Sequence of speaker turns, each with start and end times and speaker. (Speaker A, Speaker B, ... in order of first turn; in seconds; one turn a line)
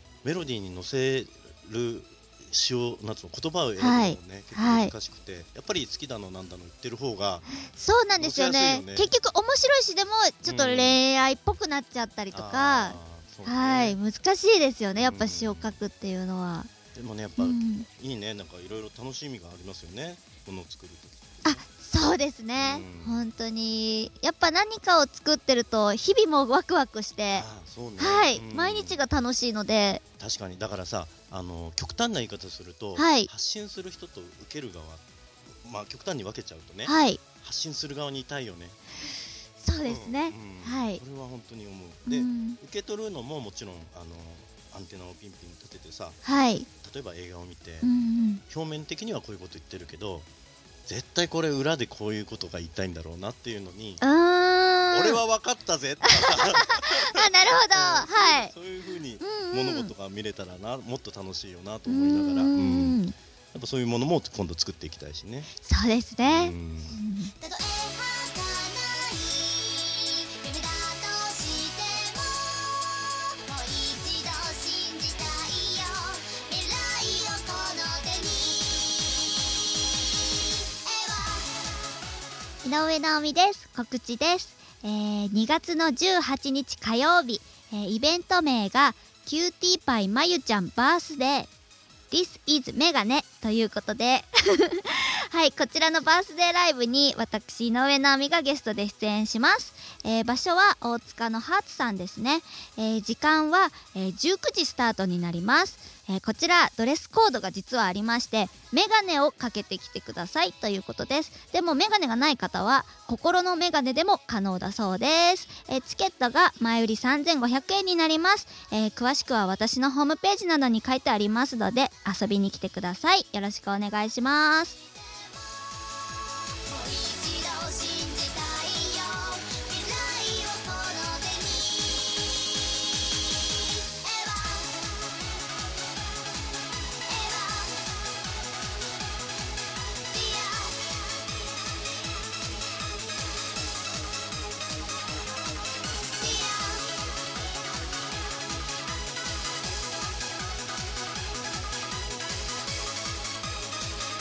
Speaker A: 0.2-7.5
Speaker B: 3.8-4.9
Speaker B: 7.7-16.7
Speaker A: 8.2-9.1
Speaker A: 10.4-11.0
Speaker A: 12.3-14.0
Speaker A: 14.9-15.8
Speaker A: 16.9-21.6
Speaker B: 17.4-17.9
Speaker B: 21.4-27.4
Speaker A: 22.6-23.2
Speaker A: 27.3-29.0
Speaker B: 28.0-30.0
Speaker A: 30.2-38.8
Speaker B: 33.0-33.3
Speaker B: 36.9-37.2
Speaker B: 39.6-41.0
Speaker A: 39.8-46.2
Speaker B: 42.1-42.6
Speaker B: 46.2-46.7
Speaker A: 46.8-47.9
Speaker B: 47.8-48.4
Speaker A: 48.5-50.2
Speaker A: 50.9-54.0
Speaker B: 54.0-55.2
Speaker A: 54.9-63.0
Speaker B: 56.0-58.5
Speaker B: 59.2-59.9
Speaker B: 61.9-63.1
Speaker A: 63.5-65.5
Speaker B: 65.6-67.4
Speaker A: 66.2-67.0
Speaker C: 67.4-79.0
Speaker C: 80.7-81.5
Speaker B: 82.6-91.5
Speaker B: 92.1-124.8
Speaker C: 126.8-132.0
Speaker C: 134.1-134.7
Speaker C: 137.3-137.7
Speaker B: 140.2-140.5
Speaker C: 140.5-140.9